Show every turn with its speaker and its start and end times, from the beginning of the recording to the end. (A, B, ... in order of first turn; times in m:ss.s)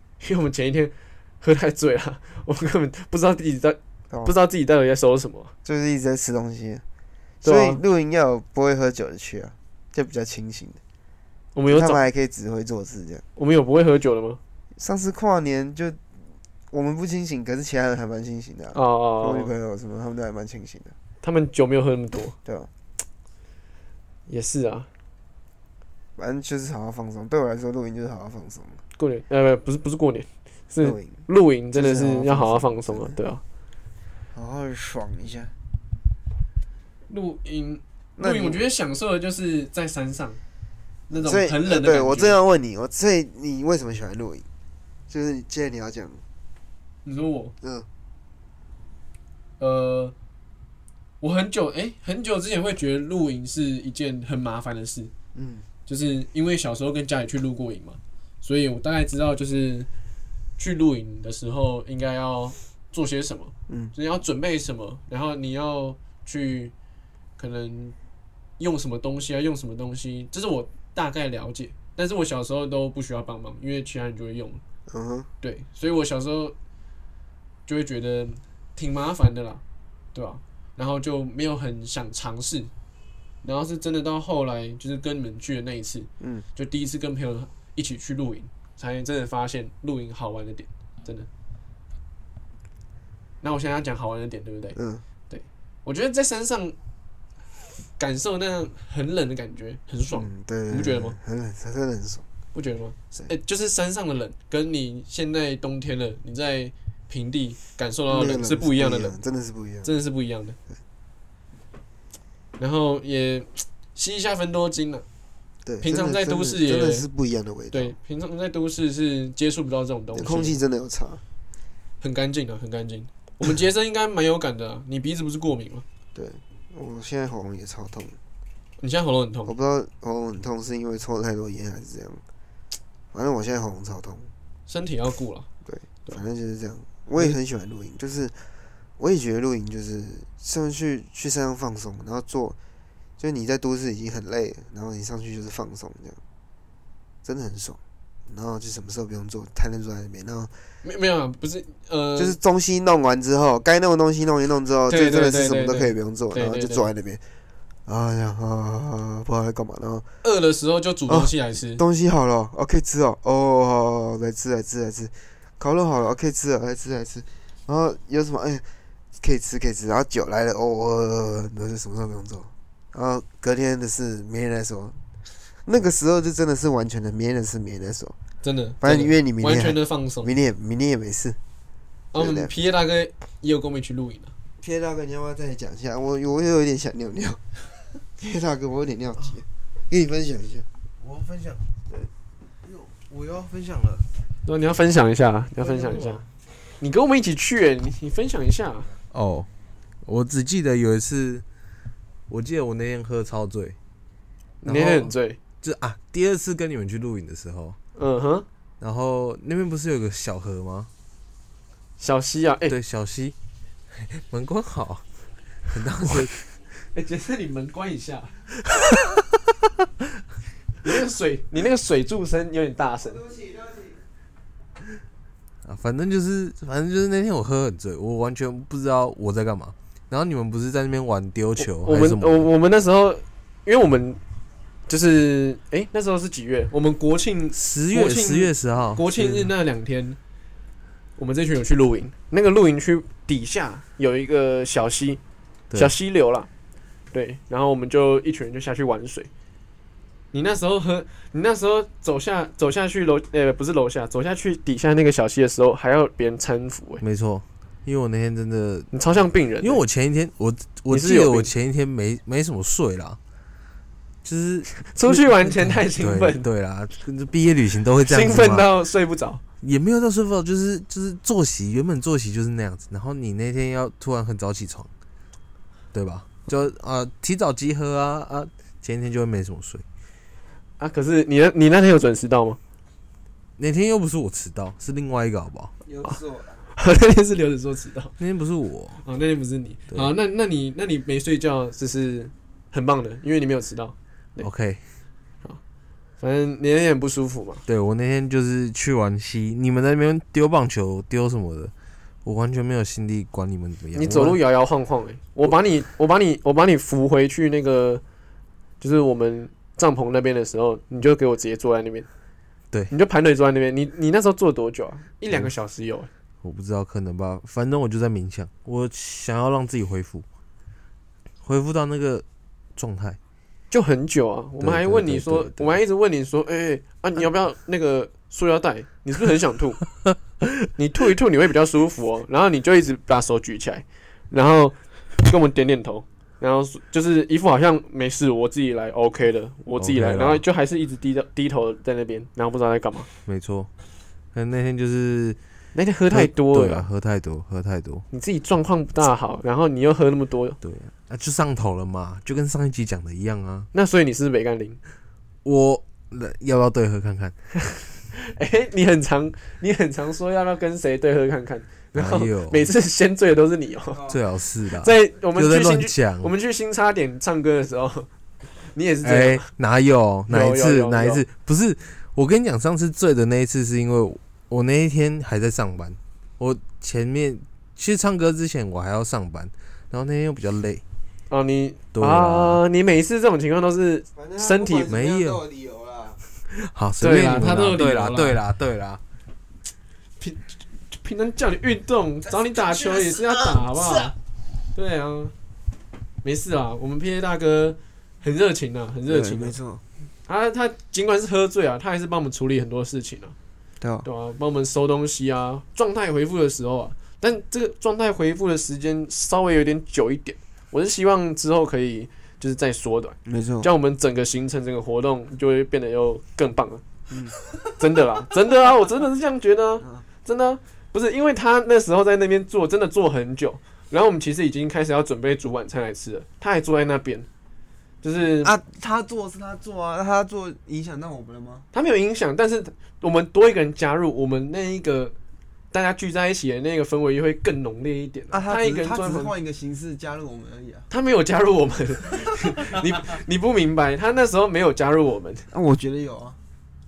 0:00.2-0:05.5 A
0:04.1-0:04.4 B
0:05.6-0:06.8 B
0:07.4-0:07.8 A
0:07.4-0:10.8 B
0:11.6-0:12.0 A
0:11.7-0:13.2 B
0:13.4-0:14.4 A
0:14.8-0:16.0 B
0:16.7-0:21.0 B
0:18.7-0:19.5 A
0:21.2-0:22.4 A
0:22.4-0:22.7 B
0:24.3-0:24.9 A
0:26.2-0:28.8 B
0:29.0-0:33.4 A
0:30.8-0:33.2 B
0:34.3-0:35.5 B
0:37.1-0:40.4 A
0:38.2-0:38.6 B
0:41.1-0:42.4 A
0:41.1-0:44.5 B
0:45.1-0:46.2 B
0:47.0-0:47.5 A
0:47.6-0:47.9 B
0:49.6-0:50.2 A
0:51.2-0:55.1 A
0:55.4-0:55.7 B
0:55.9-0:59.9 A
1:00.6-1:06.7 A
1:03.7-1:03.9 B
1:07.4-1:08.0 A
1:08.6-1:14.6 A
1:14.9-1:15.3 B
1:15.4-1:16.6 A
1:17.7-1:19.6 A
1:20.1-1:22.7 A
1:23.4-1:31.3 A
1:26.2-1:26.5 B
1:33.4-1:34.8 A
1:34.8-1:35.0 B
1:35.3-1:36.8 A
1:38.0-1:41.2 A
1:40.1-1:42.3 B
1:42.5-1:49.2 A
1:48.1-1:49.9 B
1:49.8-1:50.6 A
1:52.6-1:55.0 A
1:55.6-1:58.0 B
1:55.8-1:57.1 A
1:57.7-2:00.6 A
2:00.1-2:01.2 B
2:02.0-2:05.8 A
2:06.2-2:08.2 B
2:08.8-2:09.5 A
2:09.5-2:12.2 B
2:13.1-2:14.3 B
2:14.7-2:15.5 A
2:15.6-2:22.6 B
2:23.2-2:26.2 B
2:27.2-2:30.6 B
2:30.8-2:32.4 A
2:32.2-2:37.2 B
2:34.9-2:36.9 A
2:37.9-2:40.1 B
2:40.2-2:41.8 A
2:41.1-2:48.6 B
2:49.2-2:55.0 B
2:55.6-2:58.2 B
2:58.4-3:00.3 A
2:58.8-3:01.4 B
3:02.1-3:04.3 A
3:02.2-3:02.5 B
3:04.6-3:07.4 B
3:08.1-3:10.7 B
3:11.0-3:11.6 C
3:12.6-3:14.1 C
3:14.4-3:16.2 A
3:15.7-3:16.2 C
3:16.8-3:18.9 A
3:19.1-3:19.5 C
3:20.0-3:21.4 C
3:22.3-3:23.8 C
3:24.6-3:25.4 A
3:24.6-3:27.8 C
3:28.0-3:28.5 A
3:28.8-3:30.9 C
3:32.0-3:32.8 A
3:32.7-3:33.4 C
3:33.9-3:35.0 C
3:35.7-3:36.3 C
3:36.9-3:38.4 A
3:40.8-3:43.3 A
3:43.3-3:43.9 B
3:45.6-3:52.5 C
3:51.6-3:54.2 A
3:54.9-4:00.2 A
3:57.5-3:59.5 C
4:01.2-4:05.2 A
4:05.7-4:06.5 A
4:07.1-4:09.3 A
4:10.3-4:17.0 A
4:17.0-4:19.0 C
4:18.9-4:19.8 A
4:19.6-4:23.2 C
4:20.9-4:21.5 A
4:24.2-4:28.7 C
4:24.9-4:26.4 A
4:28.0-4:29.4 A
4:29.6-4:34.9 C
4:35.9-4:39.8 C
4:40.8-4:42.6 A
4:43.6-4:45.7 C
4:45.8-4:46.6 B
4:46.8-4:48.2 A
4:48.2-4:49.0 C
4:49.0-4:54.5 A
4:54.4-4:54.8 C
4:56.2-4:57.6 A
4:57.7-5:01.7 C
5:02.2-5:04.4 C
5:04.0-5:08.0 A
5:08.8-5:12.1 A
5:12.9-5:16.1 A
5:16.4-5:20.2 C
5:21.4-5:22.2 C
5:22.8-5:23.2 C
5:23.7-5:29.8 A
5:24.6-5:25.8 C
5:30.8-5:43.1 A
5:39.8-5:40.4 C
5:43.2-5:43.7 C
5:44.3-5:45.4 C
5:45.7-5:46.9 A
5:46.1-5:48.1 C
5:48.1-5:50.6 A
5:50.6-5:53.7 C
5:53.7-5:54.8 A
5:55.4-5:57.4 C
5:58.1-6:04.0 A
6:01.9-6:02.7 C
6:03.9-6:04.2 B
6:04.1-6:06.3 C
6:04.7-6:08.1 A
6:08.6-6:09.5 A
6:09.0-6:20.8 C
6:10.3-6:11.2 A
6:21.3-6:24.9 A
6:21.9-6:22.6 C
6:24.2-6:26.2 B
6:24.9-6:25.4 C
6:26.5-6:29.0 C
6:27.0-6:28.4 A
6:30.2-6:34.1 A
6:34.7-6:35.3 A
6:36.2-6:39.6 A
6:39.1-6:39.8 B
6:40.3-6:43.4 A
6:43.8-6:44.1 B
6:44.0-6:56.8 A
6:53.3-6:53.7 B
6:57.1-6:57.4 B
6:57.8-7:07.3 A
6:59.8-7:00.1 B
7:08.0-7:08.5 A
7:08.4-7:11.7 B
7:11.7-7:15.2 A
7:15.7-7:19.3 A
7:18.3-7:20.9 B
7:20.9-7:25.5 A
7:25.5-7:26.4 B